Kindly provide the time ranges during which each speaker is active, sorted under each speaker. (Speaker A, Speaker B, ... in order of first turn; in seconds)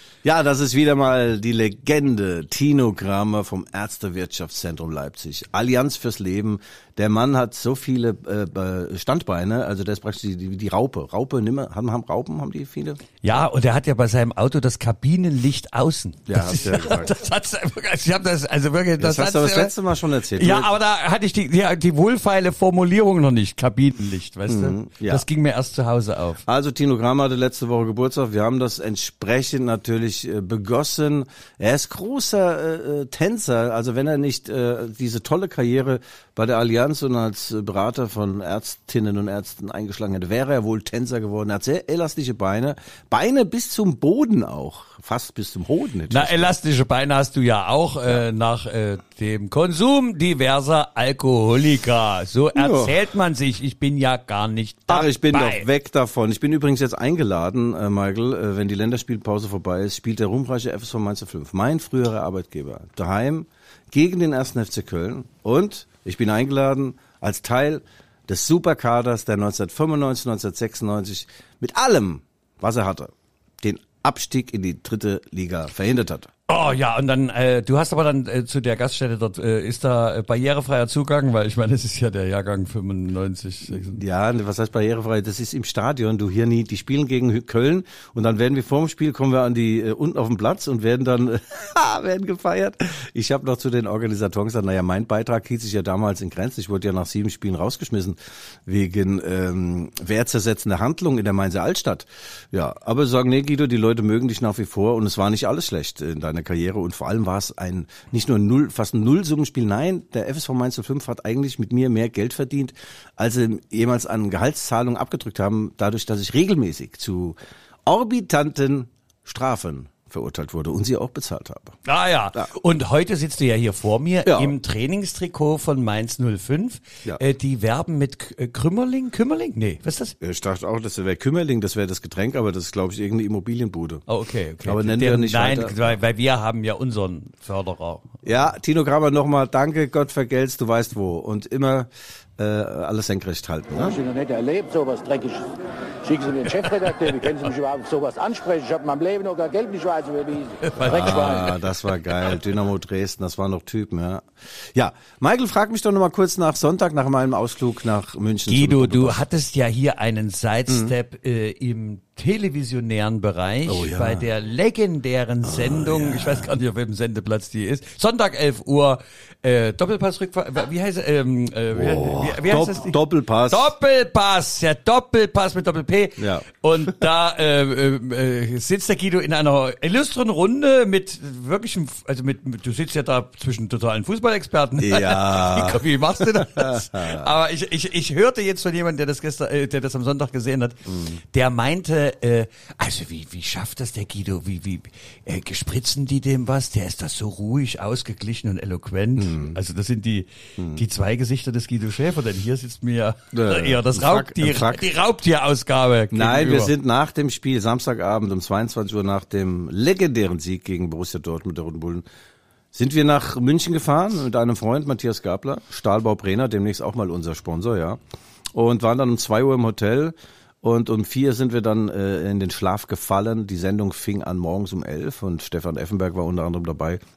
Speaker A: 0.2-13.0, 16.3-17.1, 19.0-20.7, 24.5-25.2, 26.4-46.5, 52.5-52.9, 54.9-76.3, 83.7-121.8, 124.2-124.5, 130.2-134.0, 134.6-135.8, 138.2-144.0, 150.8-159.2, 163.7-164.2, 165.4-166.5, 171.7-173.7, 176.2-176.9, 184.8-187.3, 190.8-191.2, 199.2-199.6, 203.3-204.8, 206.1-212.0, 212.7-218.0, 218.5-227.0
Speaker B: 13.2-19.7, 20.4-26.4, 46.1-55.6, 76.5-84.0, 121.8-130.1, 134.1-138.2, 150.6-151.6, 158.5-206.7
Speaker C: 143.8-151.5